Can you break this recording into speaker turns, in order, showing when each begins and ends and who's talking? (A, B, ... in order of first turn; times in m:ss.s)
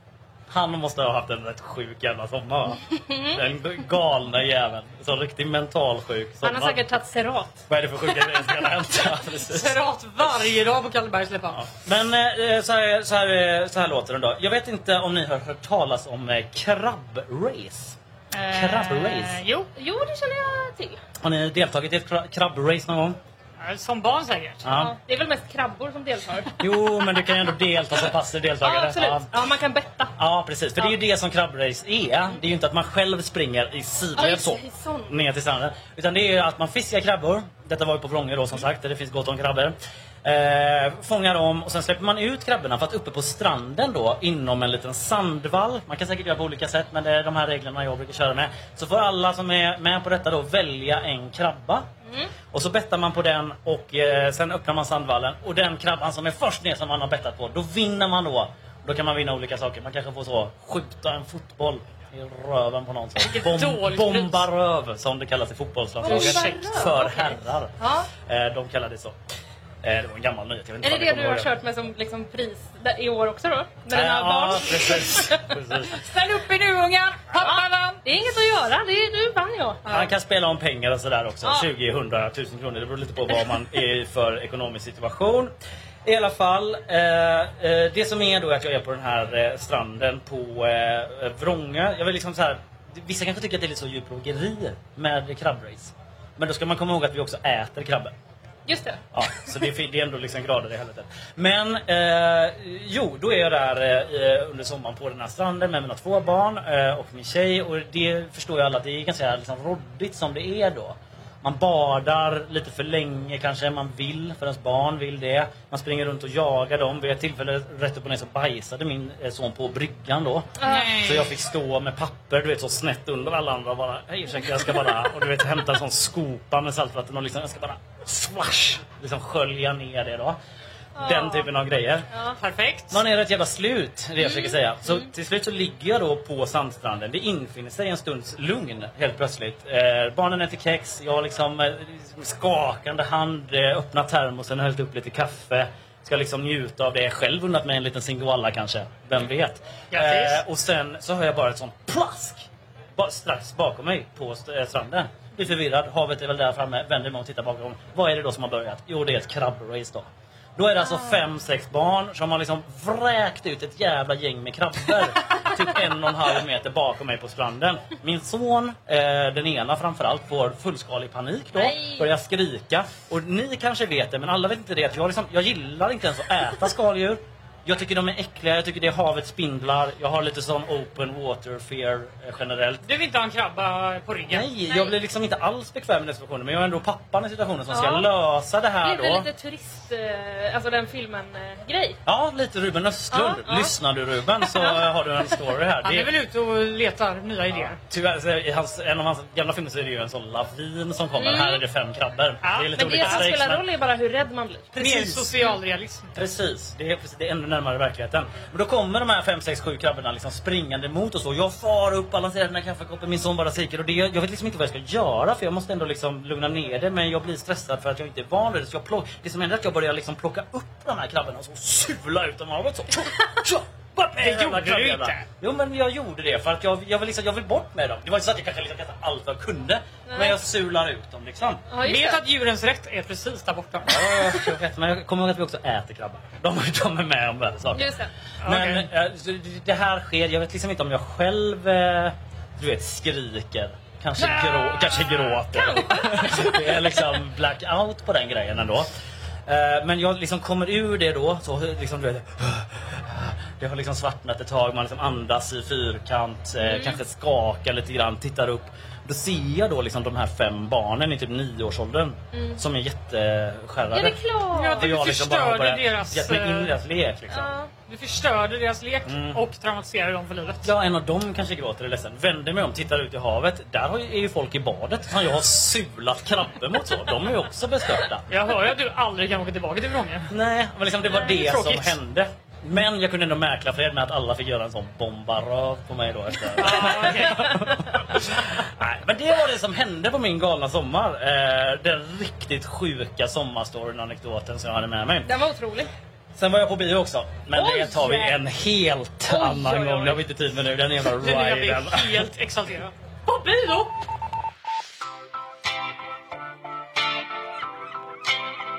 0:00.5-0:06.8 A
0:03.1-0:03.4 B
0:06.4-0:07.7 B
0:07.7-0:09.7 A
0:09.5-0:11.7 C
0:11.6-0:18.0 A
0:18.3-0:19.7 C
0:18.5-0:19.4 A
0:19.8-0:21.0 B
0:21.2-0:23.2 A
0:23.6-0:24.6 C
0:24.6-0:24.9 A
0:24.7-0:26.5 B
0:26.6-0:29.3 A
0:28.6-0:30.1 B
0:30.2-0:51.8 A
0:34.2-0:35.1 B
0:52.5-1:09.2 A
1:03.2-1:04.4 C
1:06.0-1:06.9 C
1:06.0-1:08.1 B
1:09.8-1:11.5 A
1:10.8-1:15.5 B
1:13.9-1:16.0 A
1:16.0-1:18.0 C
1:17.4-1:19.8 B
1:19.9-1:25.5 A
1:26.0-1:38.1 A
1:38.7-1:39.0 B
1:39.1-2:10.4 A
2:00.6-2:01.0 B
2:00.6-2:01.3 C
2:11.0-2:11.5 B
2:11.0-2:12.1 A
2:12.1-2:12.4 B
2:12.4-2:13.0 C
2:12.9-3:02.8 A
2:14.2-2:15.1 B
2:29.9-2:30.4 C
2:51.5-2:52.1 B
3:02.8-3:04.5 C
3:04.3-3:09.3 A
3:04.7-3:04.9 B
3:07.7-3:08.1 B
3:08.8-3:12.0 B
3:12.1-3:16.1 A
3:13.1-3:13.7 B
3:14.4-3:14.8 B
3:15.8-3:17.8 C
3:17.5-3:23.6 A
3:21.2-3:21.6 B
3:22.4-3:23.3 C
3:22.8-3:24.8 B
3:24.7-3:25.3 A
3:24.8-3:26.1 C
3:26.2-3:51.6 A
3:44.2-3:45.2 C
3:50.1-3:50.4 B
3:51.7-3:52.2 B
3:51.8-3:54.1 C
3:53.9-3:57.9 A
3:57.7-3:58.1 B
3:58.4-3:58.9 C
3:58.4-4:08.9 A
4:04.2-4:05.4 C
4:05.5-4:07.0 B
4:09.5-4:24.2 A
4:16.6-4:17.0 B
4:22.3-4:22.6 B
4:23.9-4:25.0 B
4:24.6-4:26.8 C
4:24.8-4:27.5 A
4:27.3-4:27.7 B
4:27.9-4:30.7 C
4:29.1-4:29.4 A
4:30.6-4:38.3 A
4:38.3-4:40.3 C
4:40.3-4:55.3 A
4:41.1-4:42.0 C
4:46.6-4:47.6 C
4:55.2-4:55.9 B
4:56.4-5:02.3 A
4:57.5-4:58.4 B
4:59.3-5:00.2 B
5:01.2-5:03.9 C